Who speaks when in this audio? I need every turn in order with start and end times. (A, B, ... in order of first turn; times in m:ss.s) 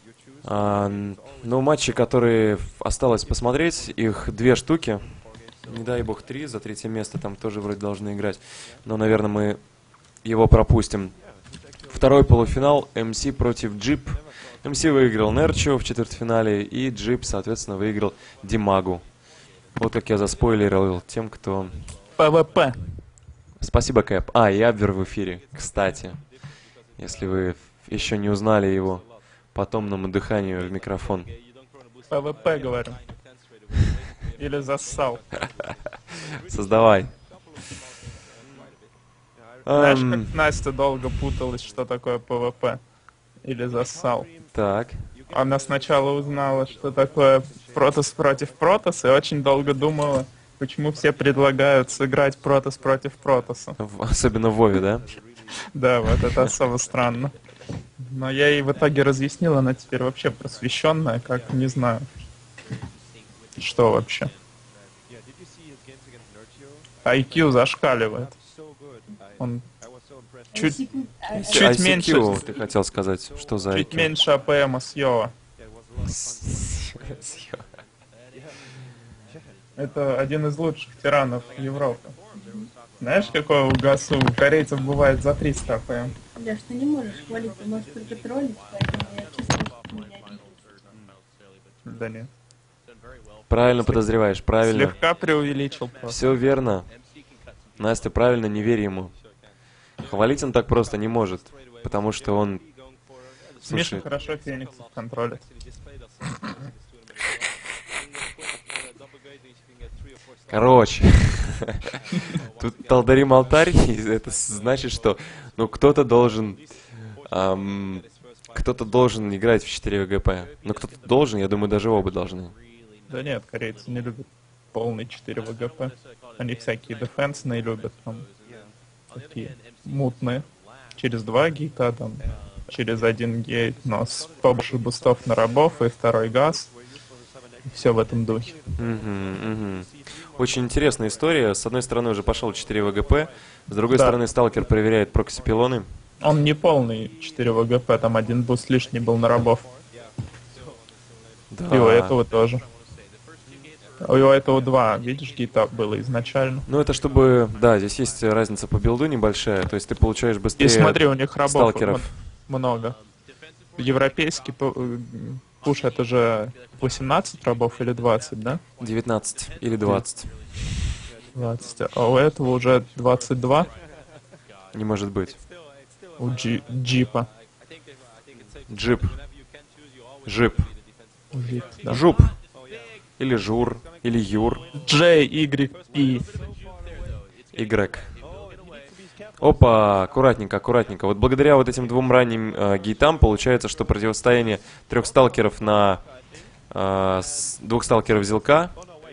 0:00.4-0:09.6 A
0:10.2-0:11.2 A
0:11.8-0:19.1 A
0:19.7-0:21.8 A
0:22.2-0:22.9 B
0:23.6-0:26.2 A
0:27.0-0:31.3 A
0:32.1-0:33.0 B
0:34.4-0:35.2 B
0:36.4-0:37.1 A
0:39.6-0:40.3 A
0:39.7-0:42.8 B
0:43.4-0:44.3 B
0:44.5-0:45.1 A
0:45.3-0:53.8 B
0:53.8-0:55.1 A
0:55.7-0:57.3 B
0:58.0-1:02.0 B
1:03.6-1:04.3 B
1:07.0-1:08.3 B
1:09.4-1:09.6 B
1:10.5-1:11.7 C
1:10.5-1:10.8 B
1:11.3-1:14.1 A
1:11.4-1:12.4 B
1:13.7-1:15.3 B
1:16.0-1:17.6 A
1:19.8-1:22.2 B
1:22.3-1:22.7 C
1:23.0-1:26.1 B
1:26.4-1:30.9 C
1:31.8-1:32.3 B
1:33.5-1:34.9 A
1:34.6-1:36.2 B
1:36.1-1:36.9 A
1:37.8-1:39.2 A
1:40.0-1:42.7 A
1:43.6-1:44.0 A
1:43.7-1:45.5 B
1:50.5-1:51.9 A
1:52.6-2:02.5 A
2:03.1-2:08.2 B
2:09.1-2:16.7 B
2:17.6-2:18.6 B
2:18.8-2:25.9 A
2:23.9-2:24.2 B
2:26.2-2:29.7 B
2:31.5-2:32.1 A
2:31.7-2:32.6 B
2:34.0-2:36.6 B
2:36.7-2:42.1 A
2:40.6-2:43.0 B
2:43.8-2:48.6 B
2:48.8-2:50.7 A
2:51.3-2:53.7 B
2:54.7-2:55.4 A
2:56.2-2:57.3 B
2:58.7-2:59.2 A
3:00.2-3:00.7 A
3:01.3-3:02.0 B
3:01.8-3:02.4 A
3:03.2-3:04.6 A
3:04.7-3:06.3 B
3:07.5-3:08.2 A
3:09.4-3:16.0 A
3:16.7-3:18.8 A